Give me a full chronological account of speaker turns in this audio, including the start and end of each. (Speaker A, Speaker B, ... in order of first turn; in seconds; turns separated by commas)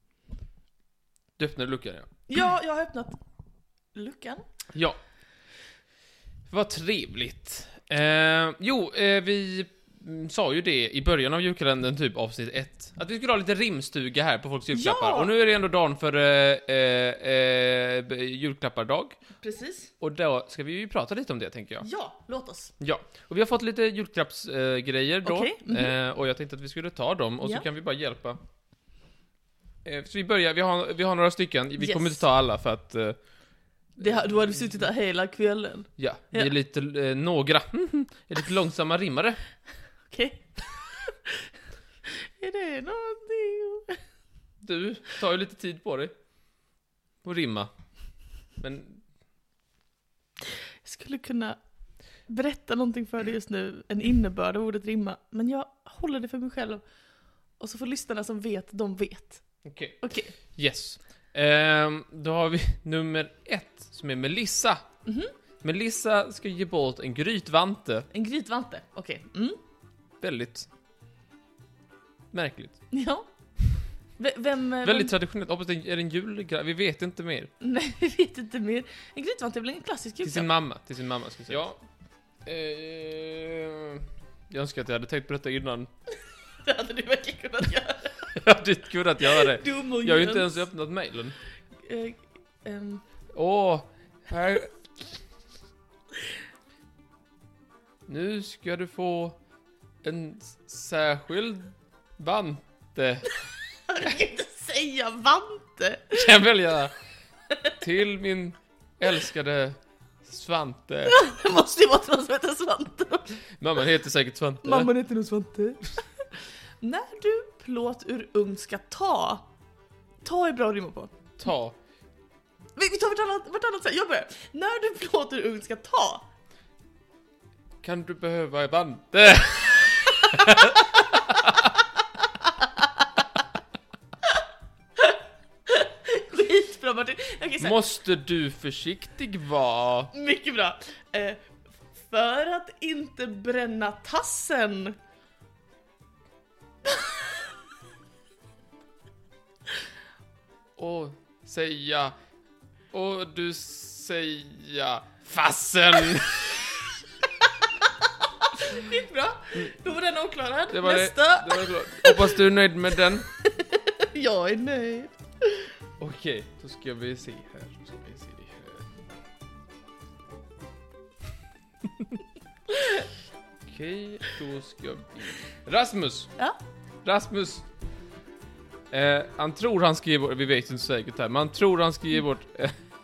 Speaker A: 1.4-2.1, Speaker B: 2.3-3.2, Speaker B: 3.9-4.4, Speaker A: 4.7-5.0, Speaker A: 6.5-19.2, Speaker B: 14.7-15.3, Speaker B: 19.4-19.9, Speaker A: 20.0-21.9, Speaker B: 21.8-22.7, Speaker A: 22.8-28.4, Speaker B: 25.2-25.9, Speaker A: 29.8-33.2, Speaker B: 31.8-32.2, Speaker B: 34.0-36.5, Speaker A: 36.0-39.4, Speaker B: 40.1-41.5, Speaker B: 42.1-44.0, Speaker A: 44.6-46.1, Speaker A: 47.2-47.7, Speaker A: 48.6-49.1, Speaker B: 50.8-51.6, Speaker B: 52.3-56.8, Speaker B: 57.6-59.4, Speaker A: 59.6-64.8, Speaker B: 60.0-60.3, Speaker B: 65.0-65.3, Speaker A: 65.6-68.1, Speaker B: 68.1-69.6, Speaker A: 70.2-70.7, Speaker A: 72.3-72.8, Speaker B: 72.9-73.3, Speaker B: 74.2-75.1, Speaker A: 74.8-77.5, Speaker B: 77.6-80.5, Speaker A: 80.2-81.8, Speaker A: 82.5-85.9, Speaker B: 86.6-88.3, Speaker A: 88.3-91.4, Speaker B: 89.2-90.7, Speaker B: 91.8-93.0, Speaker A: 93.3-94.7, Speaker A: 98.1-99.4, Speaker A: 100.0-103.3, Speaker B: 103.9-106.3, Speaker A: 106.1-106.9, Speaker A: 107.7-111.2, Speaker B: 111.0-113.3, Speaker A: 113.6-114.9, Speaker B: 114.6-119.5, Speaker B: 120.2-121.1, Speaker A: 121.4-121.8, Speaker B: 122.8-126.2, Speaker A: 127.8-131.7, Speaker B: 132.4-133.2, Speaker B: 135.0-137.9, Speaker A: 137.6-140.1, Speaker B: 140.1-141.5, Speaker B: 142.0-145.0, Speaker B: 146.9-147.5, Speaker A: 150.8-152.1, Speaker A: 152.9-156.8, Speaker B: 157.7-162.5, Speaker A: 160.7-163.3, Speaker B: 163.1-165.7, Speaker A: 166.0-168.9, Speaker B: 172.7-173.0, Speaker A: 173.7-176.3, Speaker A: 177.0-177.6, Speaker A: 178.9-182.8